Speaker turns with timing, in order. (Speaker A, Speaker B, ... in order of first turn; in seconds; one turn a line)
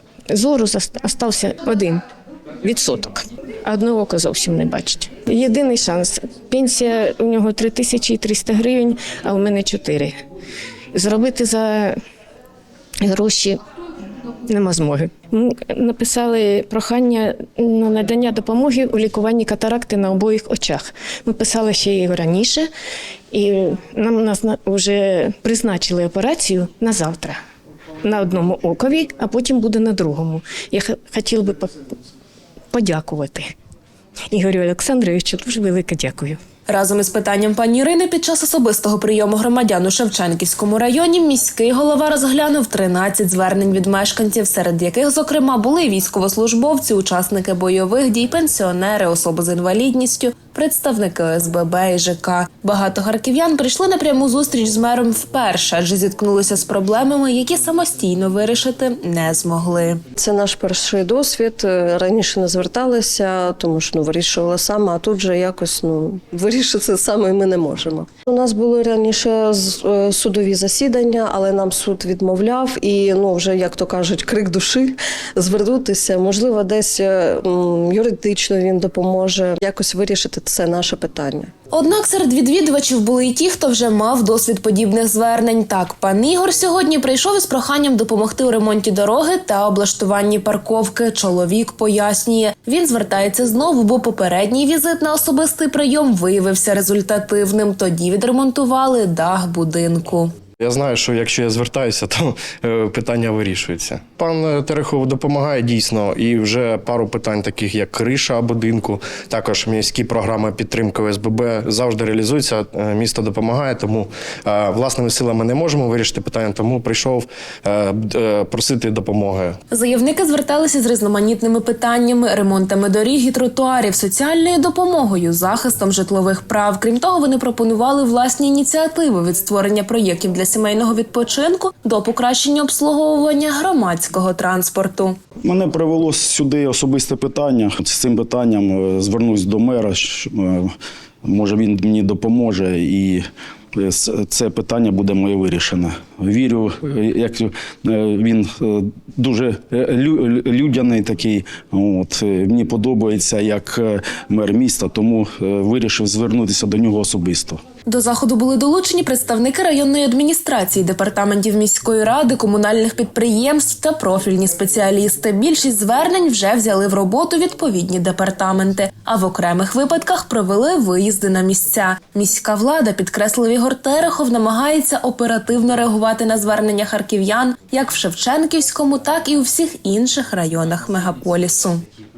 Speaker A: 0.3-2.0
Speaker A: 2.6-10.2
Speaker A: 10.9-12.0
Speaker A: 13.0-13.6
Speaker A: 14.5-22.7
Speaker A: 23.3-27.4
Speaker A: 28.0-31.8
Speaker A: 32.7-33.5
Speaker A: 34.3-36.4
Speaker B: 36.7-60.0
Speaker C: 60.2-81.5
Speaker B: 81.7-100.3
Speaker D: 100.6-119.6
Speaker B: 119.7-135.2
Speaker E: 135.4-140.7
Speaker E: 141.2-143.2
Speaker E: 143.8-157.6
Speaker B: 157.8-181.8